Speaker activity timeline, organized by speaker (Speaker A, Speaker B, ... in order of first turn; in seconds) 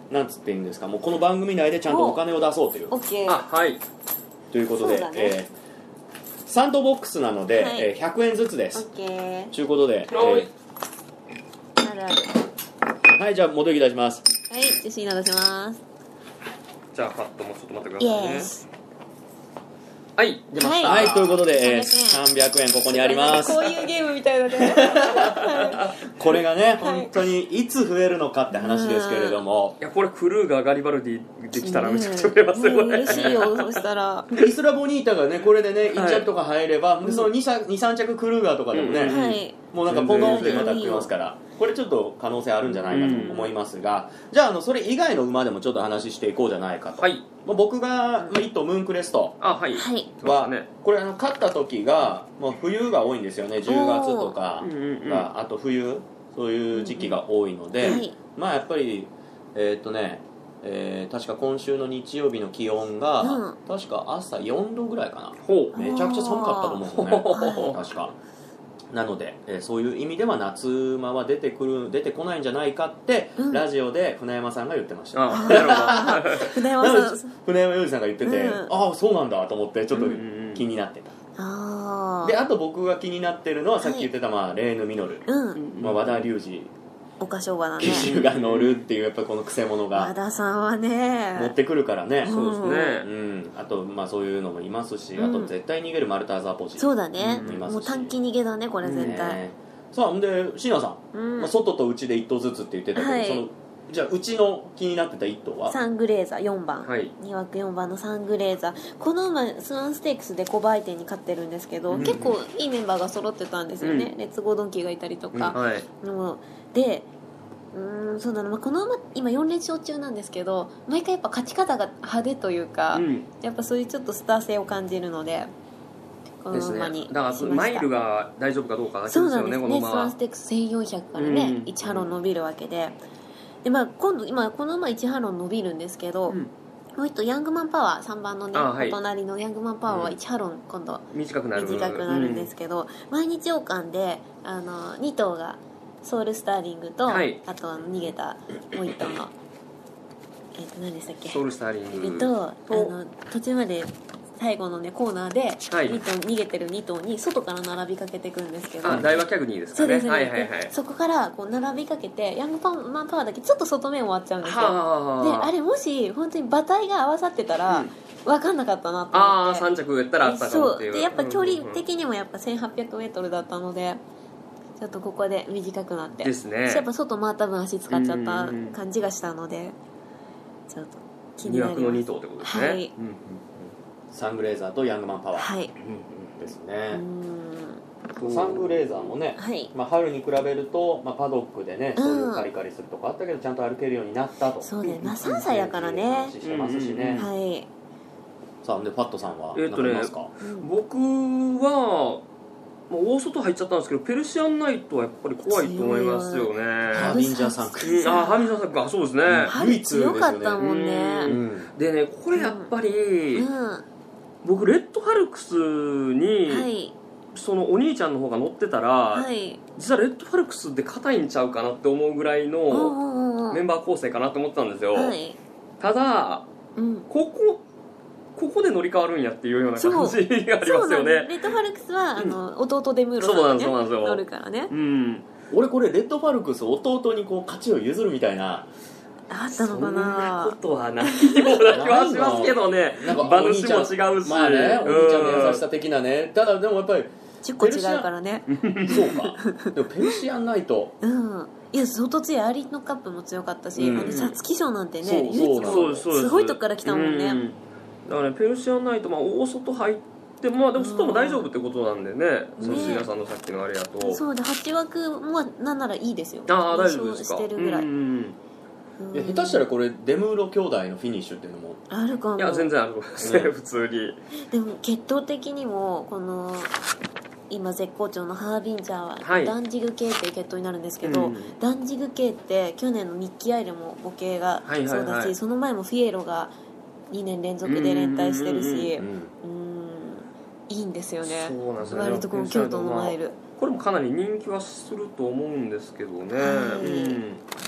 Speaker A: 0.1-2.9, 4.5-5.5, 6.5-8.8, 9.5-10.5, 13.1-14.3, 20.8-23.9, 24.6-29.8, 33.1-33.6, 34.3-39.2, 39.7-49.4, 50.2-68.1, 68.9-81.1, 82.2-85.3, 85.8-86.7, 87.8-90.1, 91.3-98.2, 98.9-105.8, 158.9-159.2, 184.1-185.5, 186.4-187.0, 188.2-197.3, 198.6-200.3, 206.9-208.1, 209.2-210.7, 211.2-211.7, 235.5-238.7, 241.7-248.1, 248.8-250.9, 253.8-254.2, 255.0-256.1, 262.6-263.1, 269.1-271.8, 273.2-273.5, 289.0-289.3
Speaker B: 1.9-2.2, 2.9-3.4, 4.8-5.4, 7.6-7.9, 8.7-9.5, 11.8-12.3, 14.5-15.8, 18.0-18.7, 20.6-22.3, 22.9-25.9, 26.8-27.2, 28.5-29.4, 31.6-34.3, 37.0-37.3, 39.1-41.1, 42.9-43.5, 49.7-50.1, 53.6-54.4, 56.7-57.2, 57.8-58.2, 63.2-63.6, 65.7-67.8, 73.4-73.7, 75.3-77.3, 78.2-78.7, 81.4-82.4, 83.8-84.1, 85.3-85.6, 87.2-88.1, 89.9-91.6, 92.2-93.0, 95.2-95.5, 96.8-99.4, 101.1-101.5, 102.9-103.5, 105.7-117.1, 117.7-125.5, 126.4-127.9, 129.1-133.0, 133.6-136.4, 136.9-149.3, 150.6-151.4, 152.0-159.1, 159.7-169.7, 170.2-174.0, 174.8-179.8, 180.7-182.9, 185.3-185.7, 186.9-187.8, 189.4-189.7, 192.0-192.5, 194.6-196.4, 197.2-197.7, 200.4-200.7, 205.4-208.6, 209.5-211.4, 212.3-212.7, 213.3-213.8, 216.5-216.9, 219.1-219.6, 222.7-223.6, 224.9-225.4, 226.8-227.1, 229.8-234.7, 239.3-242.4, 244.8-245.4, 247.4-250.2, 251.0-257.4, 260.8-261.5, 262.6-263.1, 264.0-267.9, 269.0-269.6, 271.9-272.7, 274.5-276.8, 277.5-286.5, 287.1-293.4, 296.4-297.2
Speaker C: 3.3-3.8, 10.1-10.5, 16.9-18.5, 20.2-21.4, 25.2-26.0, 29.8-34.5, 35.9-36.3, 38.7-40.8, 42.9-43.4, 47.0-47.2, 49.4-50.7, 54.6-55.3, 65.4-65.8, 66.8-67.8, 75.2-76.5, 80.0-80.7, 85.5-86.2, 87.9-88.9, 92.2-93.1, 97.2-97.6, 98.8-99.2, 106.8-107.1, 111.9-112.4, 113.8-114.1, 115.3-115.9, 122.9-123.3, 126.5-130.2, 131.2-132.2, 138.5-139.0, 139.9-140.2, 141.1-142.5, 147.1-147.4, 151.2-152.9, 155.7-156.0, 158.8-160.7, 164.4-165.5, 167.7-167.9, 169.1-171.8, 176.2-176.9, 177.9-178.8, 181.4-183.7, 185.8-186.5, 188.2-189.1, 194.8-195.5, 196.4-197.3, 199.5-202.2, 202.9-207.2, 207.8-209.5, 210.6-213.5, 214.4-216.7, 217.3-225.2, 225.8-226.5, 227.1-227.6, 228.4-231.6, 233.2-235.3, 239.5-245.6, 248.5-249.1, 253.9-254.4, 255.6-264.2, 266.5-268.4, 272.4-274.2, 279.2-279.6, 281.0-281.6, 284.6-285.4, 287.6-289.0, 291.2-297.4